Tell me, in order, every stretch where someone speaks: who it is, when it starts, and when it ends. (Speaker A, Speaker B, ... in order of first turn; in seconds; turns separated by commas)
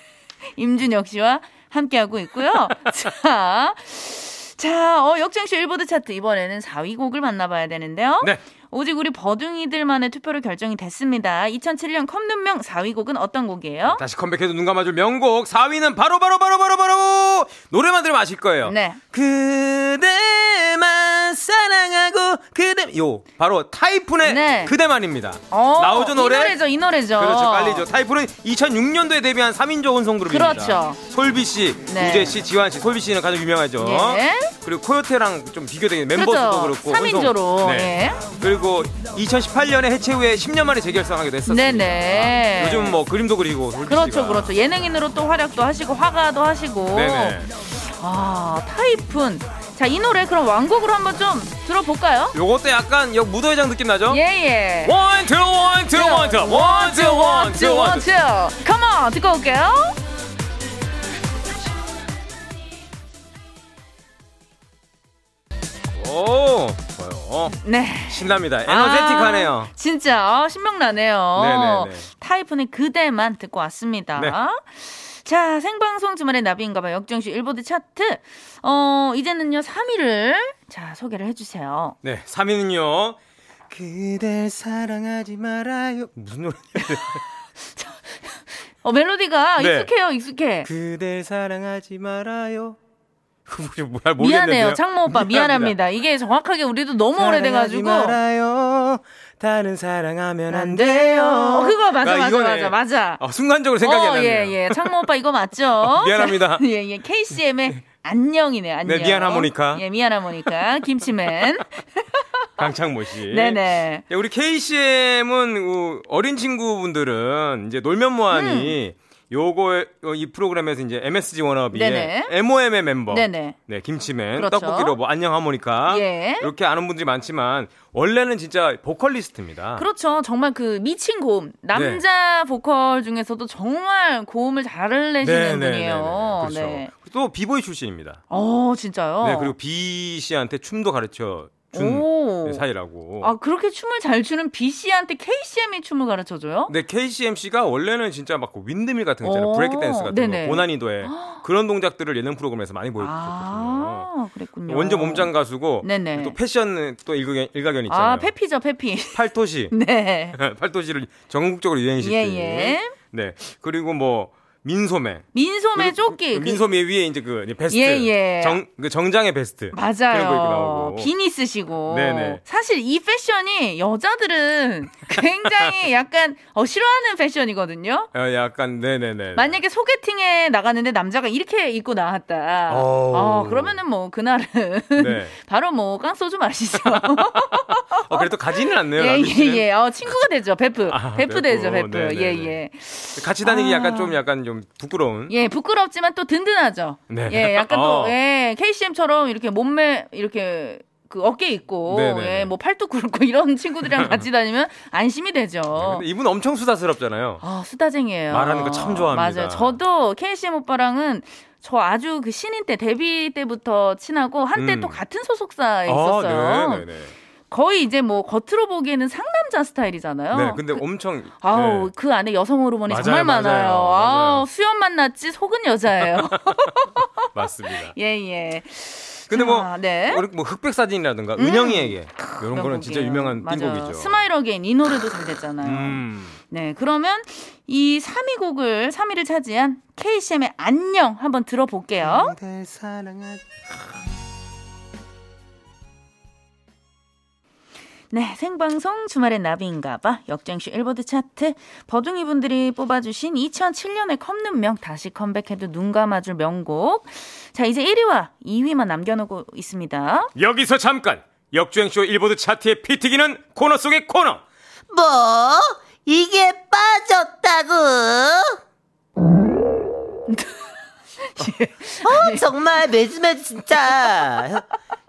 Speaker A: 0.5-14.0, Speaker B: 13.9-26.6, Speaker A: 18.6-19.0, Speaker A: 24.2-24.7, Speaker A: 25.5-27.9, Speaker B: 27.2-44.5, Speaker A: 30.3-31.0, Speaker A: 31.9-32.4, Speaker A: 33.8-34.5, Speaker A: 36.1-38.2, Speaker A: 41.5-43.0, Speaker A: 43.9-52.4, Speaker B: 46.9-47.5, Speaker B: 52.3-54.2, Speaker A: 54.1-55.0, Speaker B: 54.8-58.1, Speaker A: 55.9-60.0, Speaker B: 65.9-69.7, Speaker A: 67.6-82.0, Speaker B: 71.4-72.1, Speaker B: 82.0-83.2, Speaker B: 83.7-87.2, Speaker A: 86.8-90.7, Speaker B: 89.6-89.9, Speaker B: 90.7-92.8, Speaker B: 93.5-95.8, Speaker A: 94.2-98.2, Speaker B: 97.2-105.0, Speaker A: 100.5-103.2, Speaker A: 103.8-112.2, Speaker B: 105.8-106.6, Speaker B: 108.8-109.8, Speaker B: 112.6-129.9, Speaker A: 113.3-114.0, Speaker A: 118.3-118.8, Speaker A: 121.7-122.3, Speaker A: 123.1-123.6, Speaker A: 124.4-125.0, Speaker A: 125.9-126.5, Speaker A: 129.8-136.9, Speaker B: 131.7-132.0, Speaker B: 135.2-138.2, Speaker A: 138.3-139.6, Speaker B: 139.2-143.3, Speaker A: 141.7-142.6, Speaker A: 143.2-146.7, Speaker B: 146.7-154.1, Speaker A: 149.2-151.4, Speaker A: 153.0-155.3, Speaker B: 154.7-158.3, Speaker A: 155.8-156.4, Speaker A: 157.9-159.2, Speaker B: 159.1-159.7, Speaker A: 159.7-160.4, Speaker B: 160.3-171.1, Speaker A: 162.0-162.9, Speaker A: 165.3-166.6, Speaker A: 167.7-168.6, Speaker A: 169.7-178.1, Speaker B: 171.9-172.4, Speaker B: 178.1-179.6, Speaker A: 179.3-194.2, Speaker B: 182.7-183.8, Speaker B: 185.0-185.3, Speaker B: 186.8-189.7, Speaker B: 190.9-192.6, Speaker B: 193.2-195.3, Speaker A: 195.3-206.1, Speaker B: 197.1-198.2, Speaker B: 201.9-202.5, Speaker B: 203.8-204.2, Speaker B: 205.8-207.4, Speaker A: 207.4-216.9, Speaker B: 208.3-209.8, Speaker B: 214.6-215.0, Speaker B: 215.9-217.1, Speaker A: 217.5-220.8, Speaker B: 220.3-221.9, Speaker A: 221.4-227.3, Speaker B: 222.9-224.5, Speaker B: 226.1-226.6, Speaker B: 227.3-227.9, Speaker A: 227.9-230.2, Speaker B: 229.3-234.2, Speaker A: 231.4-242.3, Speaker B: 235.6-236.4, Speaker B: 242.1-243.4, Speaker A: 248.1-260.3, Speaker B: 260.4-264.4, Speaker C: 264.9-268.6, Speaker A: 270.3-270.6, Speaker A: 271.2-272.5, Speaker C: 272.0-274.6